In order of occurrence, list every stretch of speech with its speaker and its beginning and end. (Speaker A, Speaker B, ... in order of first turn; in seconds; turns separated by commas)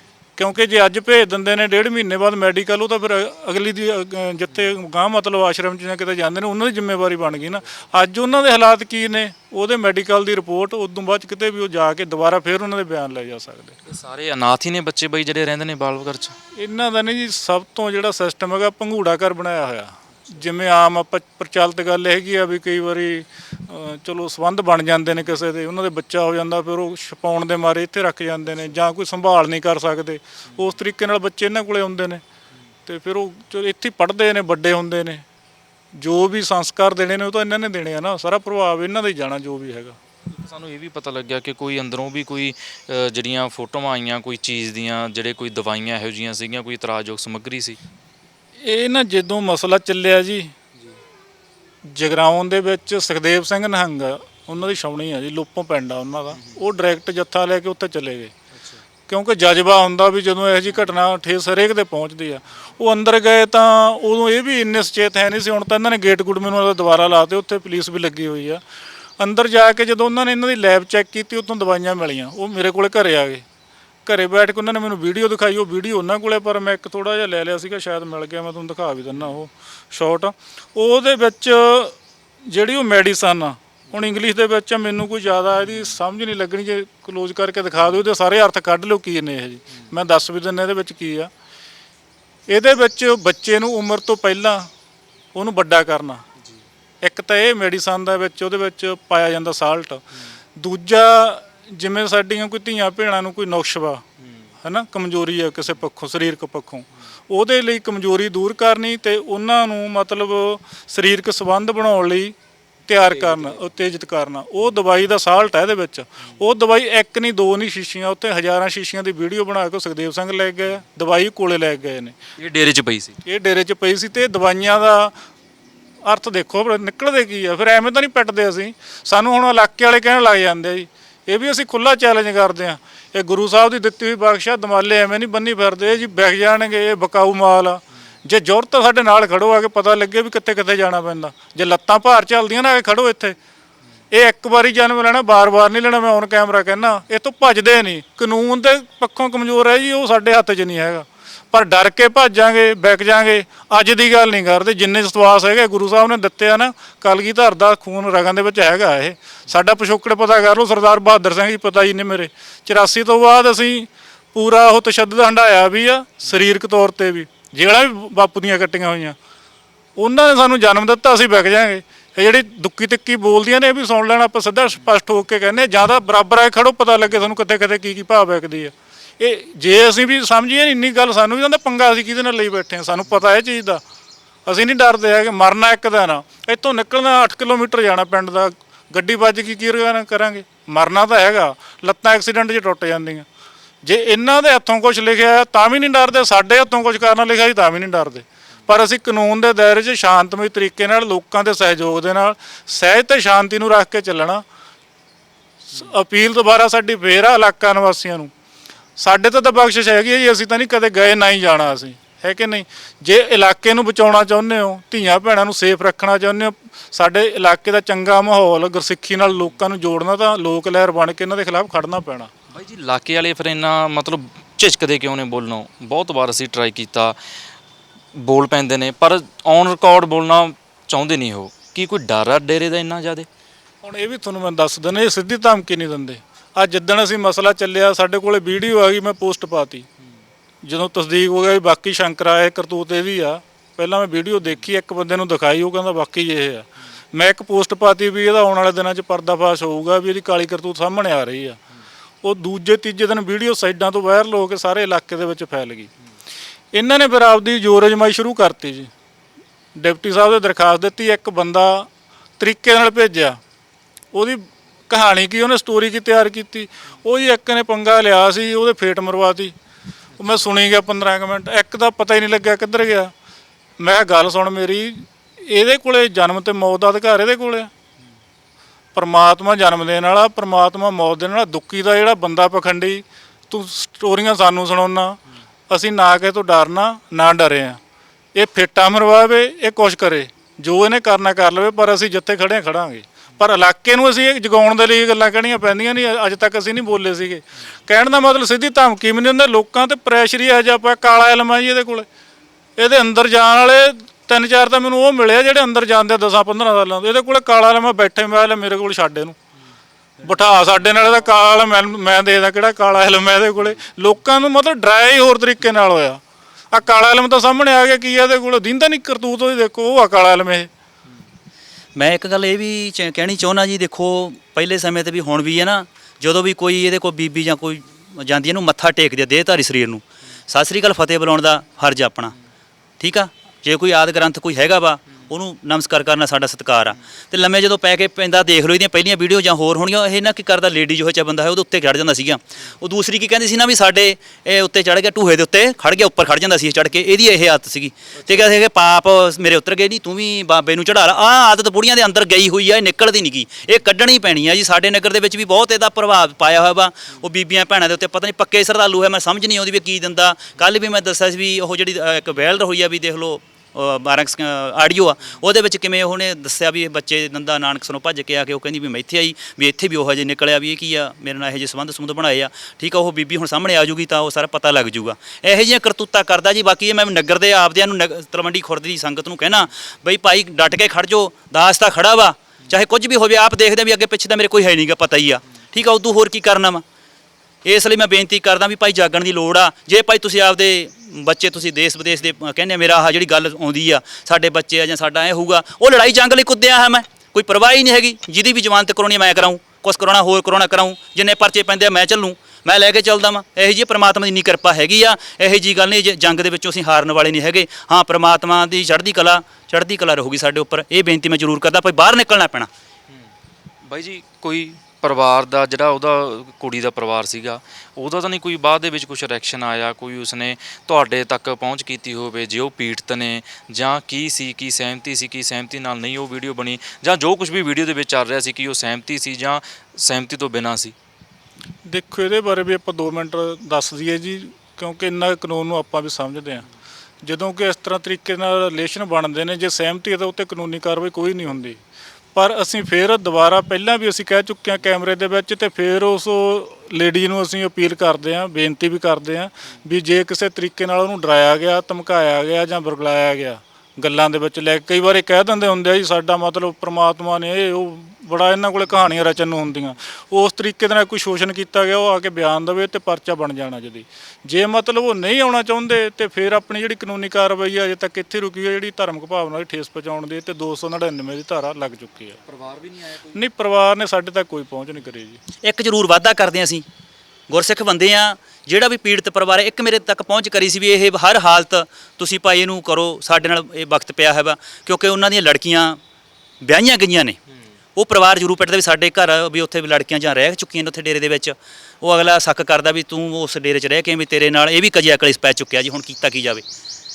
Speaker A: 0.4-13.8, Speaker B: 13.8-16.4, Speaker A: 16.6-32.2, Speaker A: 32.9-35.2, Speaker A: 36.0-40.0, Speaker B: 40.3-47.8, Speaker A: 48.6-50.5, Speaker A: 51.9-58.3, Speaker B: 58.6-58.8, Speaker A: 59.1-68.6, Speaker A: 69.2-73.4, Speaker A: 74.1-82.0, Speaker A: 82.5-91.3, Speaker A: 92.5-94.7, Speaker A: 95.3-96.2, Speaker A: 97.0-100.0, Speaker A: 100.6-104.0, Speaker A: 104.6-112.3, Speaker A: 112.9-122.2, Speaker B: 113.1-113.6, Speaker B: 122.4-123.2, Speaker A: 123.2-125.1, Speaker A: 126.0-143.4, Speaker A: 144.1-169.2, Speaker A: 170.0-183.8, Speaker A: 184.5-193.3, Speaker A: 193.8-204.4, Speaker A: 205.7-208.3, Speaker A: 209.0-222.3, Speaker B: 222.5-227.2, Speaker B: 228.1-233.3, Speaker A: 233.8-239.9, Speaker A: 240.6-251.6, Speaker A: 252.2-255.9, Speaker A: 256.7-258.9, Speaker A: 259.8-263.4, Speaker A: 264.1-269.5, Speaker B: 270.2-270.4, Speaker A: 270.2-273.1, Speaker A: 273.8-277.7, Speaker A: 278.9-287.8, Speaker A: 288.4-302.1, Speaker A: 302.8-309.4, Speaker A: 310.2-316.2, Speaker B: 310.3-311.1, Speaker A: 316.7-320.7, Speaker C: 322.0-332.4, Speaker C: 333.0-386.8, Speaker C: 387.6-412.7, Speaker B: 413.9-430.9, Speaker A: 431.9-436.6, Speaker A: 437.2-441.8, Speaker A: 442.4-472.4, Speaker B: 472.5-473.4, Speaker A: 473.3-475.4, Speaker C: 475.6-476.9, Speaker C: 477.5-486.0, Speaker C: 486.6-487.4, Speaker C: 488.0-496.6